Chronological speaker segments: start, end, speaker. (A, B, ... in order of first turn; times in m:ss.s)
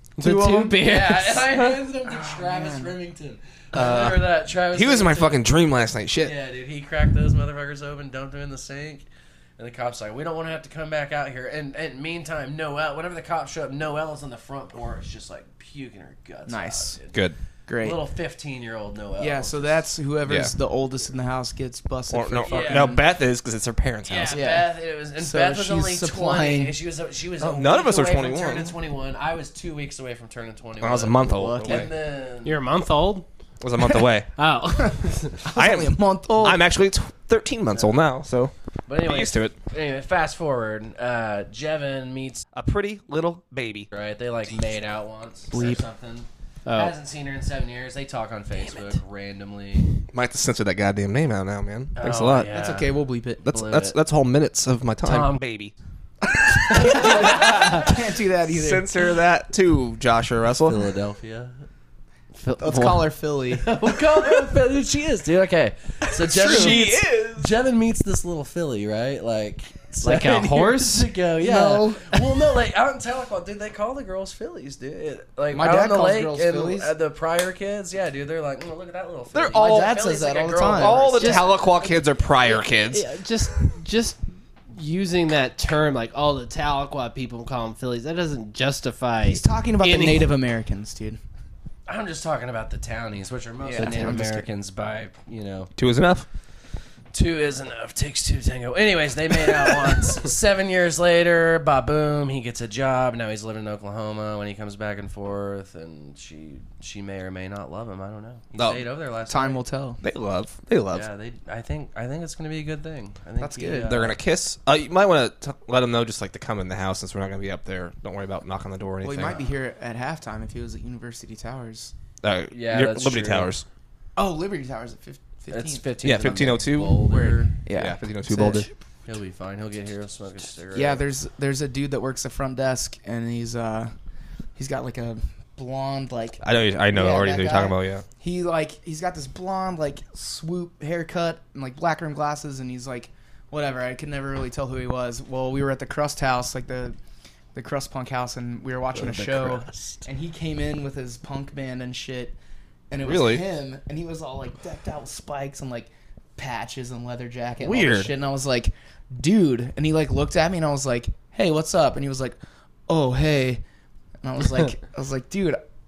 0:00.2-0:01.8 A
0:00.2-0:00.8 B
0:00.8-0:05.5 C
0:02.0-0:02.9 B
0:03.7-0:06.4 D
0:06.2-0:09.0 C
0:09.6-0:17.3 C
0:16.5-0:17.0 B
0:17.7-0:18.0 B
0:17.8-0:19.9 C
0:19.2-0:23.0 B
0:20.2-0:20.5 D
0:22.1-0:24.4 D
0:22.4-0:23.0 C
0:24.1-0:32.6 C
0:24.3-0:26.8 B
0:27.4-0:28.8 D
0:30.8-0:31.9 D
0:31.3-0:31.9 B
0:32.4-0:33.3 A
0:33.6-0:34.3 D
0:34.4-0:35.4 A
0:35.4-0:36.6 B
0:35.5-0:39.5 D
0:38.9-0:42.4 C
0:42.5-0:43.9 D
0:43.9-0:49.9 C
0:45.5-0:45.8 B
0:46.6-0:46.9 A
0:48.6-0:49.0 A
0:50.1-0:52.6 D
0:52.0-0:54.0 C
0:52.5-0:53.4 B
0:53.4-0:55.7 D
0:55.0-0:55.4 C
0:56.5-0:58.9 B
0:56.7-0:57.9 D
0:56.9-0:57.5 C
0:58.4-1:00.9 D
1:00.6-1:01.6 C
1:02.3-1:03.2 A
1:02.6-1:03.7 B
1:03.5-1:21.6 C
1:06.3-1:07.3 B
1:06.3-1:07.4 D
1:10.0-1:11.2 A
1:11.4-1:12.2 B
1:15.5-1:16.9 B
1:19.3-1:20.0 D
1:19.5-1:21.1 B
1:20.7-1:23.1 D
1:21.2-1:21.6 A
1:22.4-1:24.2 A
1:24.7-1:30.4 A
1:29.2-1:31.2 B
1:31.8-1:35.7 C
1:33.6-1:34.5 B
1:35.8-1:36.3 D
1:37.1-1:49.6 C
1:48.5-1:48.8 D
1:49.3-1:50.0 B
1:50.0-1:51.1 D
1:50.9-1:54.2 C
1:53.4-1:54.0 B
1:53.8-1:59.4 D
1:59.0-2:01.9 B
2:02.2-2:03.6 D
2:02.5-2:03.5 C
2:04.2-2:08.7 B
2:05.5-2:07.5 C
2:06.0-2:08.7 D
2:09.0-2:11.0 C
2:10.7-2:13.9 B
2:14.6-2:27.0 B
2:16.4-2:18.0 D
2:27.5-2:32.4 B
2:28.9-2:30.0 C
2:32.9-2:42.4 B
2:33.0-2:33.4 D
2:37.6-2:38.1 D
2:42.9-2:43.6 B
2:44.2-2:45.6 B